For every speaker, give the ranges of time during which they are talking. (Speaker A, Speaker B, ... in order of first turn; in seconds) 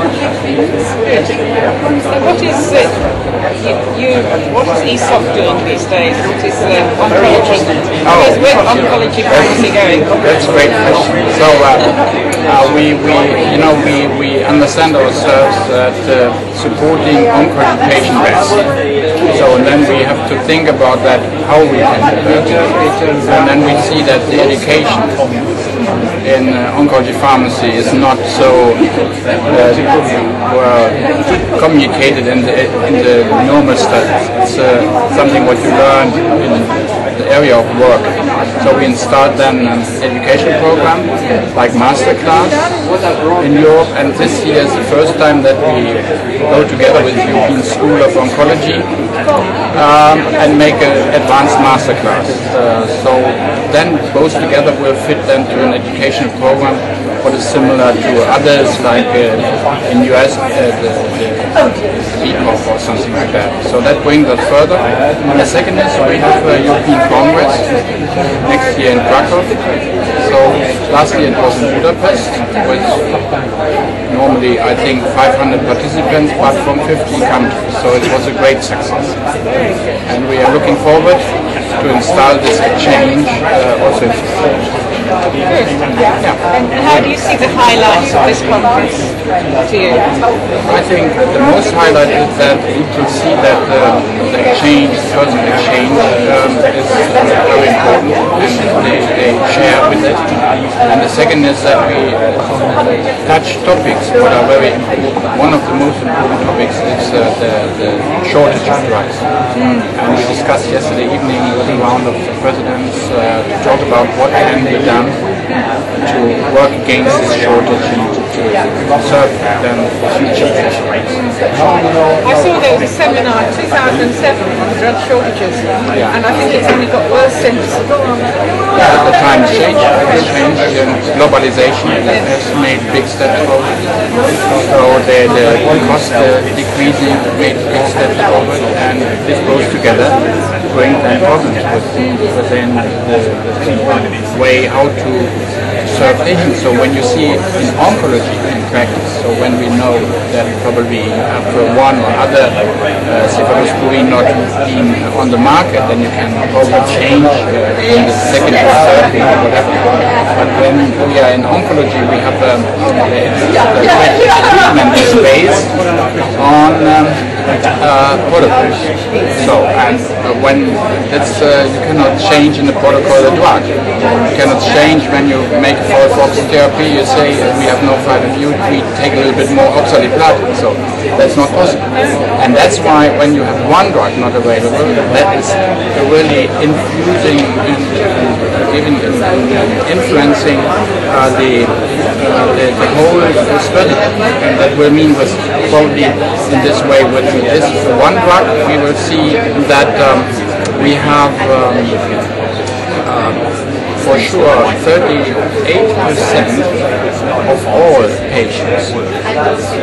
Speaker A: 1.0-10.7, 79.4-80.0, 85.4-90.1, 109.5-109.9, 121.1-121.5, 122.1-128.7, 141.9-142.2
Speaker B: 8.0-25.4, 26.2-49.0, 49.7-79.5, 80.0-85.0, 86.2-87.1, 90.6-121.2, 125.9-126.2, 128.7-209.2